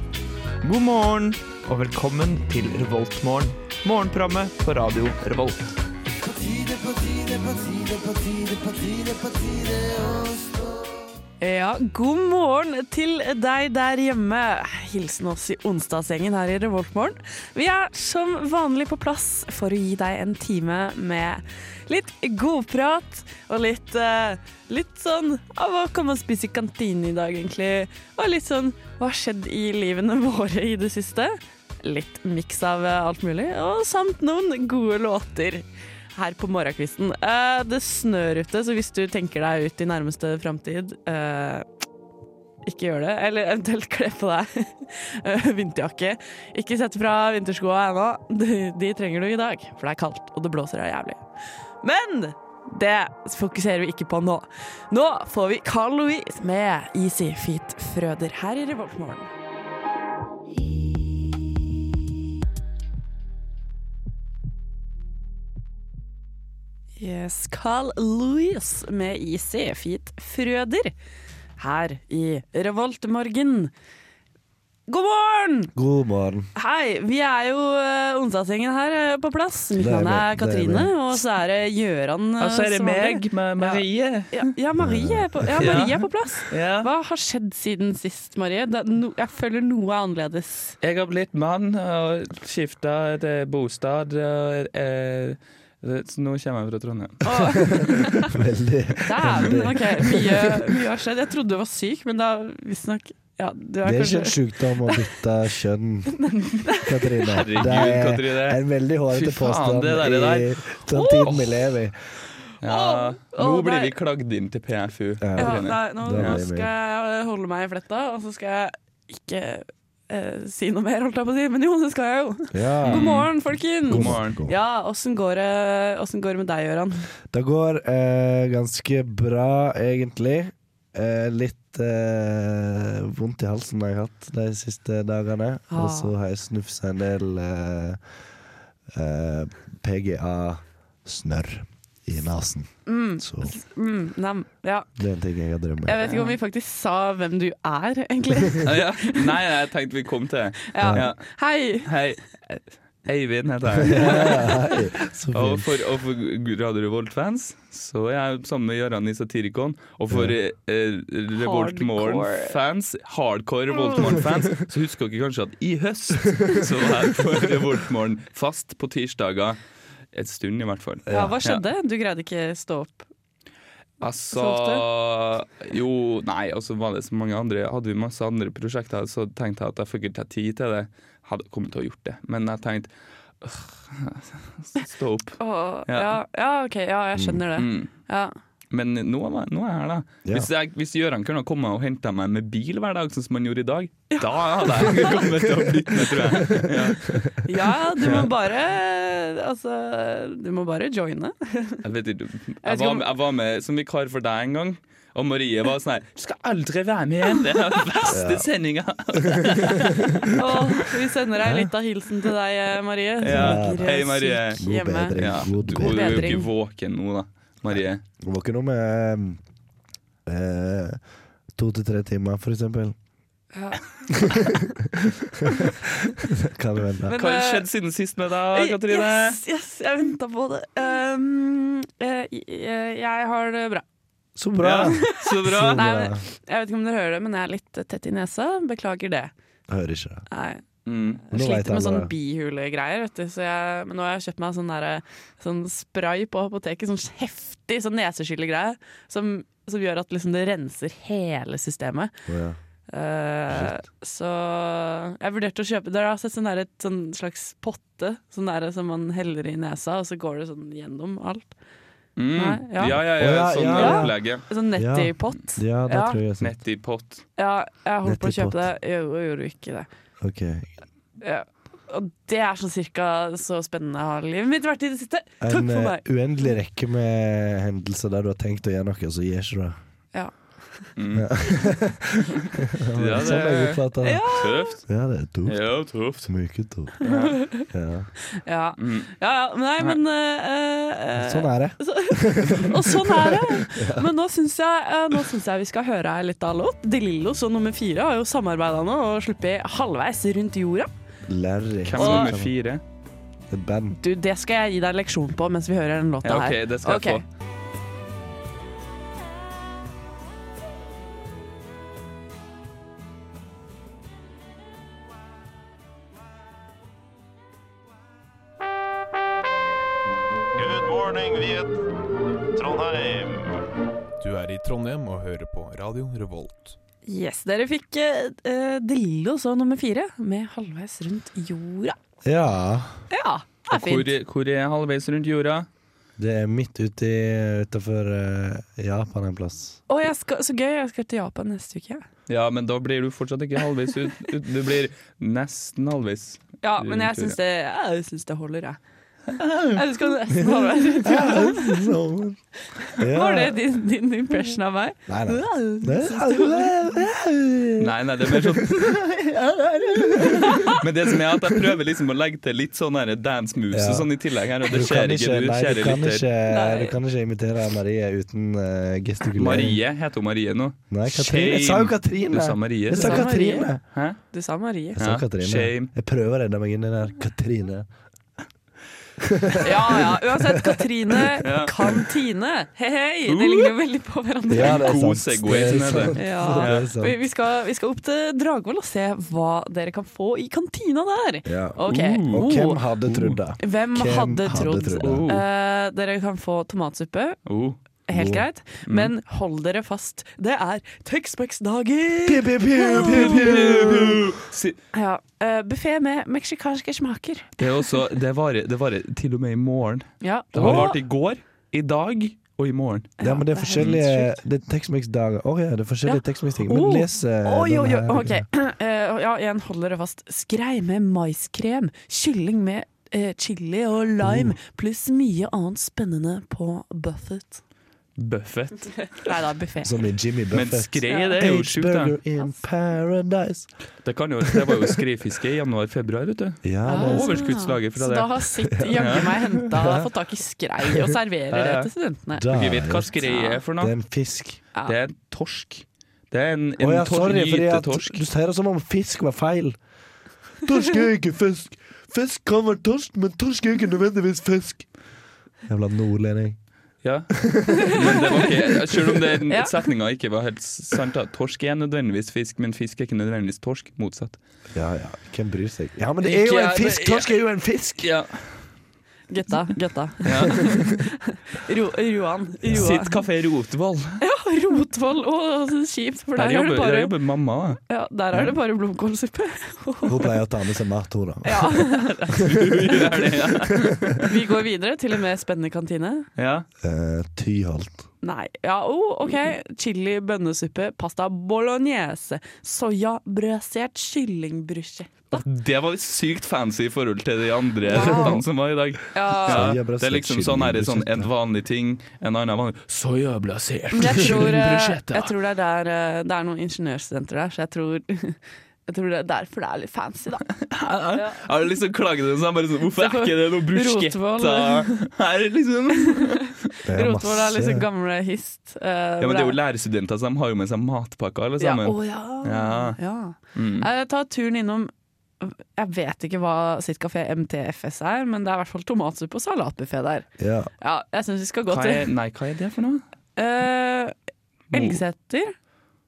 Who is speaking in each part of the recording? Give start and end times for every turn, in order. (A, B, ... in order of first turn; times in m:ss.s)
0:00.6-0:05.6 A
0:06.2-0:10.4 B
0:11.4-0:41.6 C
0:42.6-0:51.2 C
0:51.8-0:59.3 C
1:07.0-1:10.9 C
1:11.6-1:13.7 C
1:14.9-1:15.7 C
1:15.7-1:16.5 D
1:16.5-1:30.8 C
1:19.8-1:20.9 D
1:22.4-1:24.5 A
1:24.8-1:25.7 D
1:25.6-1:26.9 A
1:30.8-1:37.8 A
1:37.2-1:38.3 C
1:37.7-1:40.7 D
1:39.0-1:45.1 C
1:43.8-1:52.0 D
1:46.1-1:47.6 C
1:47.2-1:51.6 A
1:50.9-1:51.4 C
1:52.6-1:56.4 A
1:52.6-1:53.9 C
1:55.2-1:56.7 D
1:55.4-2:07.1 C
2:02.5-2:03.3 D
2:02.8-2:03.3 A
2:03.8-2:04.4 A
2:03.9-2:04.5 D
2:07.3-2:18.0 D
2:15.7-2:16.1 C
2:18.9-2:23.5 D
2:22.8-2:24.9 C
2:25.0-2:26.0 D
2:25.8-2:29.3 C
2:28.6-2:34.5 A
2:30.7-2:31.9 C
2:33.8-2:35.7 D
2:33.9-2:34.7 C
2:35.3-2:49.6 A
2:40.1-2:40.3 D
2:41.3-2:42.5 C
2:43.9-2:44.1 C
2:50.1-2:51.6 A
2:51.0-2:51.4 D
2:51.1-2:53.1 C
2:54.0-3:06.2 A
2:54.3-2:54.8 C
3:05.4-3:08.3 C
3:07.2-3:07.4 D
3:07.6-3:07.9 A
3:08.7-3:17.3 A
3:14.1-3:15.2 C
3:16.0-3:16.6 C
3:17.4-3:21.8 C
3:18.0-3:18.3 A
3:21.8-3:30.5 A
3:22.6-3:23.1 C
3:28.1-3:28.5 D
3:29.3-3:29.7 D
3:30.3-3:36.5 C
3:31.4-3:31.7 D
3:33.2-3:34.6 A
3:33.2-3:34.0 D
3:34.6-3:36.4 D
3:35.2-3:38.0 A
3:37.8-3:39.4 D
3:40.2-3:41.0 D
3:41.5-3:43.0 D
3:43.5-3:44.5 C
3:44.3-3:47.1 D
3:47.0-3:47.7 C
3:47.2-3:49.4 A
3:48.5-3:53.8 C
3:54.4-3:56.2 D
3:54.6-3:55.8 A
3:54.8-3:59.3 C
3:59.7-4:00.2 D
4:00.3-4:00.6 C
4:00.8-4:01.2 A
4:01.2-4:12.2 C
4:01.3-4:02.1 D
4:12.2-4:12.6 D
4:12.9-4:21.6 C
4:13.5-4:13.8 D
4:22.2-4:24.4 A
4:22.3-4:23.0 C
4:22.8-4:26.5 D
4:23.7-4:26.2 C
4:26.4-4:27.3 A
4:27.4-4:29.9 C
4:28.0-4:28.7 D
4:30.2-4:30.7 D
4:31.2-4:36.0 C
4:35.4-4:39.8 D
4:40.1-4:40.9 C
4:40.9-4:41.8 A
4:41.1-4:48.1 D
4:42.9-4:44.9 A
4:44.0-4:44.8 C
4:45.4-4:46.3 A
4:47.0-4:47.4 A
4:47.0-4:47.6 C
4:48.4-5:00.9 C
4:48.8-4:49.1 A
4:51.2-4:54.1 D
5:01.2-5:02.5 D
5:01.8-5:02.8 A
5:02.0-5:02.4 C
5:03.5-5:04.0 D
5:04.0-5:07.2 C
5:06.2-5:07.2 A
5:20.6-5:21.8 B
5:22.5-5:23.5 B
5:24.2-5:26.8 B
5:27.0-5:32.0 C
5:32.2-5:33.0 D
5:33.1-5:34.2 C
5:33.7-5:35.7 A
5:36.2-5:39.8 D
5:39.9-5:42.0 C
5:42.3-5:47.4 A
5:46.6-5:48.8 C
5:49.3-5:49.8 A
5:49.7-5:51.8 C
5:51.0-5:52.4 D
5:52.8-5:56.7 C
5:53.0-5:53.6 D
5:55.1-6:00.7 D
5:57.8-5:59.0 A
6:00.3-6:06.2 A
6:03.7-6:04.1 D
6:04.6-6:09.8 D
6:06.5-6:07.0 C
6:09.3-6:14.2 A
6:10.9-6:13.8 D
6:12.9-6:13.8 C
6:14.3-6:15.0 C
6:15.0-6:17.9 D
6:15.0-6:15.9 A
6:19.2-6:20.8 D
6:19.6-6:25.0 C
6:21.4-6:21.9 A
6:23.3-6:23.7 A
6:24.5-6:27.2 D
6:24.5-6:26.9 A
6:26.1-6:32.8 C
6:31.4-6:35.3 D
6:31.9-6:32.5 A
6:33.0-6:33.4 A
6:33.6-6:37.4 C
6:35.0-6:35.4 A
6:37.4-6:37.8 A
6:38.1-6:43.6 C
6:38.1-6:38.4 D
6:38.8-6:39.1 A
6:42.2-6:44.3 D
6:42.9-6:44.8 A
6:44.9-6:47.9 C
6:47.6-6:53.1 A
6:50.2-6:51.0 C
6:50.6-6:50.9 D
6:53.2-6:54.3 C
6:53.2-6:58.4 D
6:53.8-6:54.0 A
6:56.0-7:07.6 C
7:04.2-7:04.6 D
7:08.2-7:09.3 A
7:09.0-7:10.0 C
7:09.8-7:13.7 D
7:10.5-7:12.2 A
7:11.1-7:11.4 C
7:14.0-7:19.4 A
7:14.6-7:14.8 D
7:16.6-7:17.4 D
7:16.8-7:22.5 C
7:18.9-7:20.1 D
7:21.5-7:21.9 A
7:22.4-7:23.1 D
7:22.5-7:23.9 A
7:23.2-7:23.6 C
7:23.8-7:24.6 D
7:24.8-7:28.2 A
7:26.8-7:29.8 D
7:30.6-7:35.0 D
7:35.6-7:36.6 D
7:37.0-7:44.4 A
7:37.3-7:38.0 D
7:37.8-7:38.3 C
7:39.5-7:39.8 C
7:44.7-7:48.1 D
7:46.2-7:48.7 A
7:49.3-7:53.2 C
7:50.2-7:50.9 A
7:52.7-7:54.2 A
7:54.2-7:57.1 C
7:56.4-7:57.8 A
7:57.9-8:00.3 C
8:00.1-8:02.0 D
8:01.4-8:03.0 C
8:02.4-8:04.3 A
8:04.2-8:06.3 C
8:06.4-8:06.6 A
8:06.8-8:08.1 D
8:08.2-8:15.4 C
8:15.3-8:25.3 A
8:17.9-8:18.4 C
8:19.1-8:19.7 C
8:19.5-8:21.3 D
8:23.9-8:30.4 C
8:30.5-8:36.7 A
8:31.1-8:31.4 C
8:33.0-8:35.1 C
8:36.7-8:39.6 C
8:36.8-8:37.8 D
8:39.2-8:43.9 A
8:41.6-8:50.3 C
8:50.4-8:50.7 D
8:50.8-8:52.1 C
8:51.7-8:53.0 A
8:53.4-8:54.1 C
8:54.7-8:55.6 C
8:54.7-8:55.0 A